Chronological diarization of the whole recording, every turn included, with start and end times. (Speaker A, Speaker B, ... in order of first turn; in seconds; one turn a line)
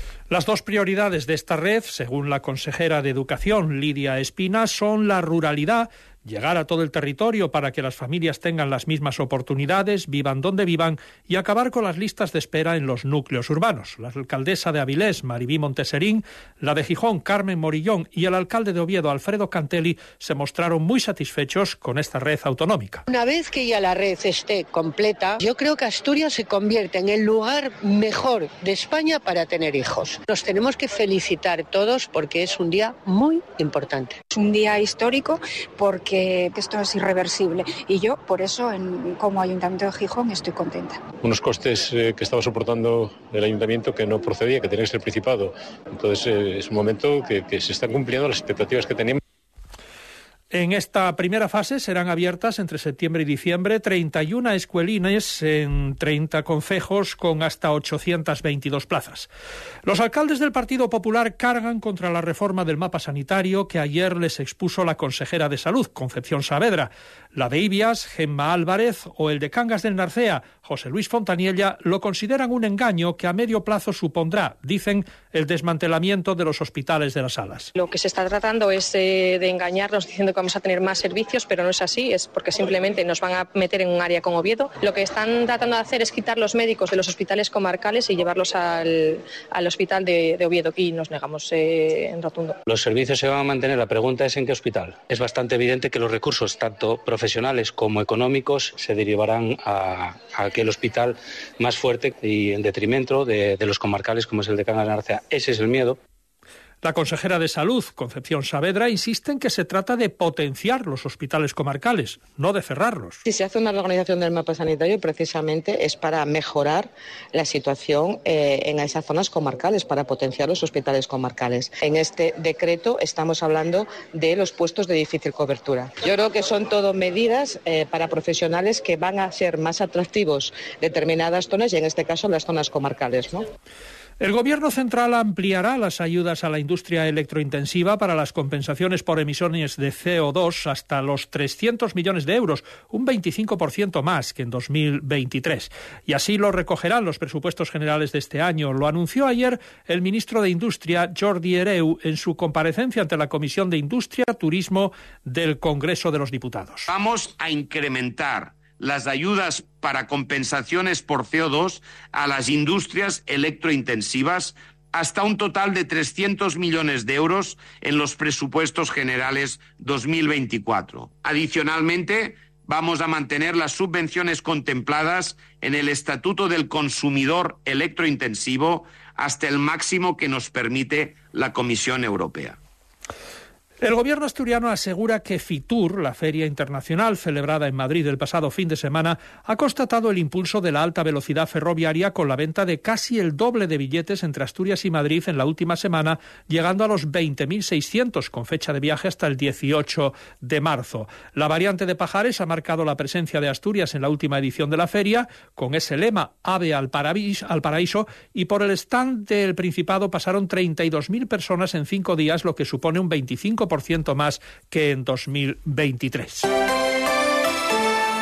Speaker A: 0.3-23.0
Speaker B: 23.1-34.1
Speaker C: 34.3-41.0
Speaker D: 41.2-49.2
Speaker A: 50.5-59.3
Speaker A: 59.8-77.7
Speaker E: 77.8-92.6
Speaker F: 92.8-101.0
Speaker F: 101.6-105.9
Speaker A: 106.8-113.2
Speaker G: 113.2-133.5
Speaker A: 134.2-156.9
Speaker H: 156.9-182.6
Speaker A: 183.8-216.5